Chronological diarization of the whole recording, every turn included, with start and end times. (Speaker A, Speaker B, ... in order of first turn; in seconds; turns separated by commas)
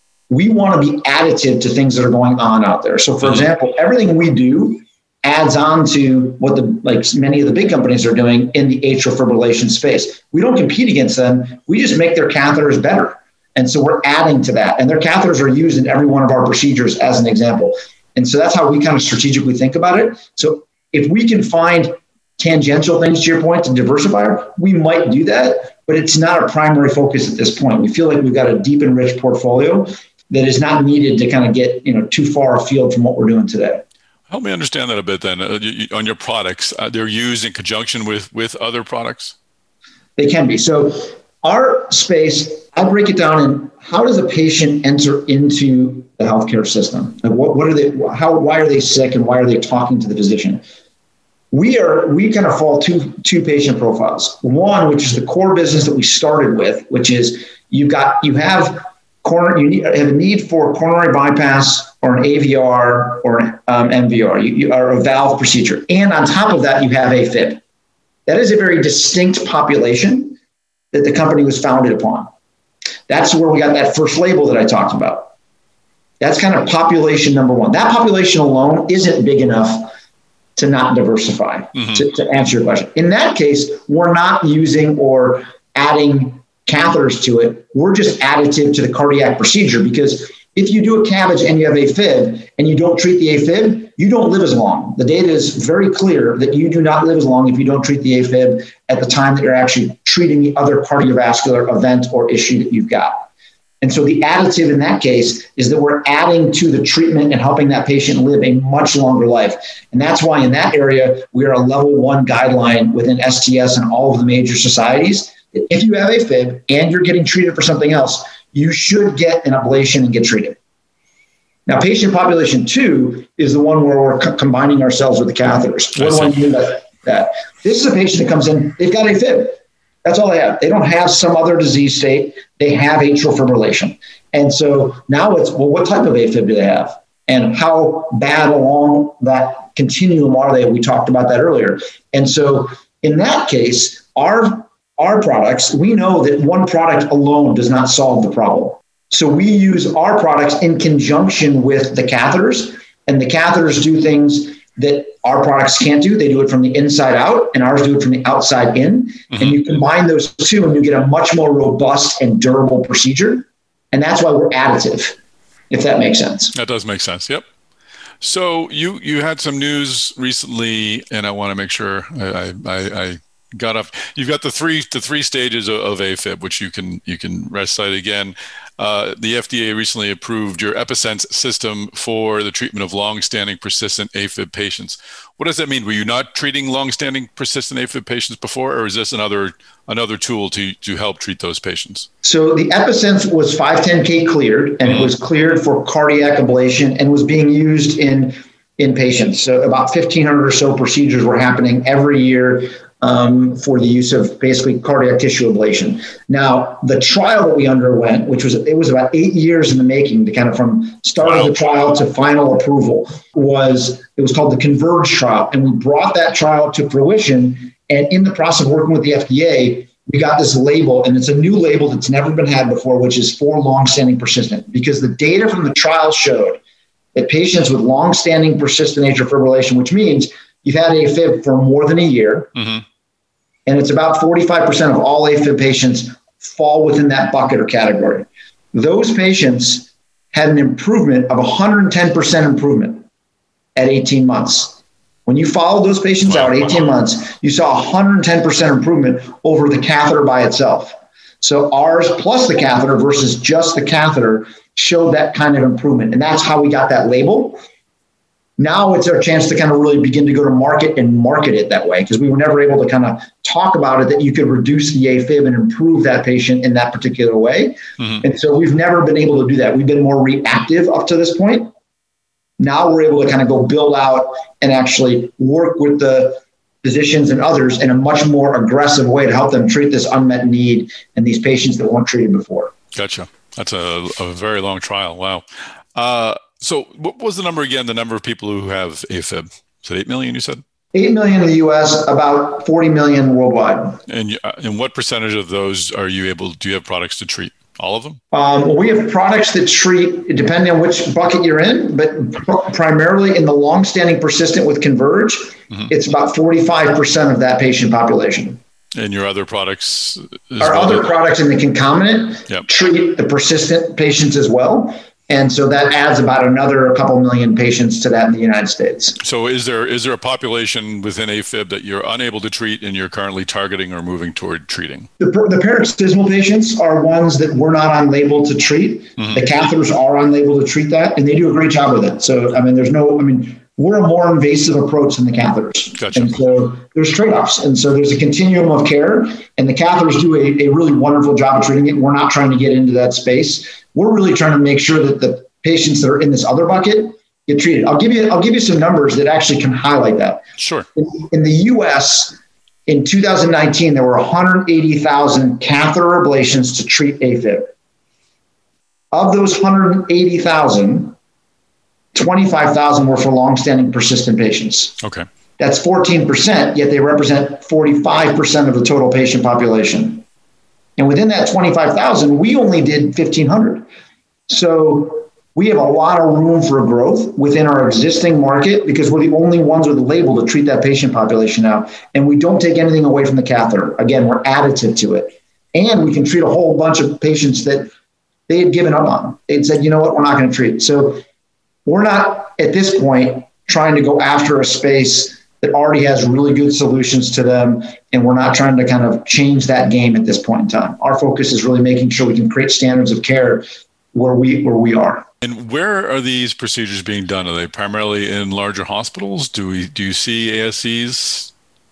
Speaker A: 0.3-33.8, Speaker B: 34.3-39.3, Speaker A: 40.2-50.6, Speaker A: 51.5-67.6, Speaker A: 68.2-70.4, Speaker A: 70.9-72.3, Speaker A: 73.1-75.3, Speaker A: 76.2-79.9, Speaker A: 80.6-103.2, Speaker A: 103.8-120.5, Speaker A: 121.7-165.2, Speaker B: 126.0-126.3, Speaker B: 159.3-159.6, Speaker A: 165.7-166.5, Speaker B: 166.5-167.4, Speaker B: 168.2-192.1, Speaker A: 192.2-226.6, Speaker A: 227.1-232.5, Speaker B: 232.6-232.8, Speaker A: 233.7-243.0, Speaker A: 243.8-257.6, Speaker A: 258.6-271.7, Speaker A: 272.6-282.7, Speaker B: 282.9-285.4, Speaker B: 285.9-290.6, Speaker A: 290.9-294.0, Speaker B: 294.1-298.2, Speaker A: 298.3-308.6, Speaker B: 308.9-311.1, Speaker A: 310.6-319.2, Speaker B: 319.2-325.1, Speaker A: 325.2-350.4, Speaker B: 329.2-329.4, Speaker B: 336.0-336.4, Speaker B: 350.6-350.9, Speaker A: 351.0-352.4, Speaker A: 352.9-357.7, Speaker A: 359.1-361.1, Speaker A: 362.1-364.9, Speaker A: 365.6-370.2, Speaker A: 371.0-373.9, Speaker A: 374.5-387.9, Speaker A: 388.5-391.2, Speaker A: 391.9-405.2, Speaker B: 405.4-411.5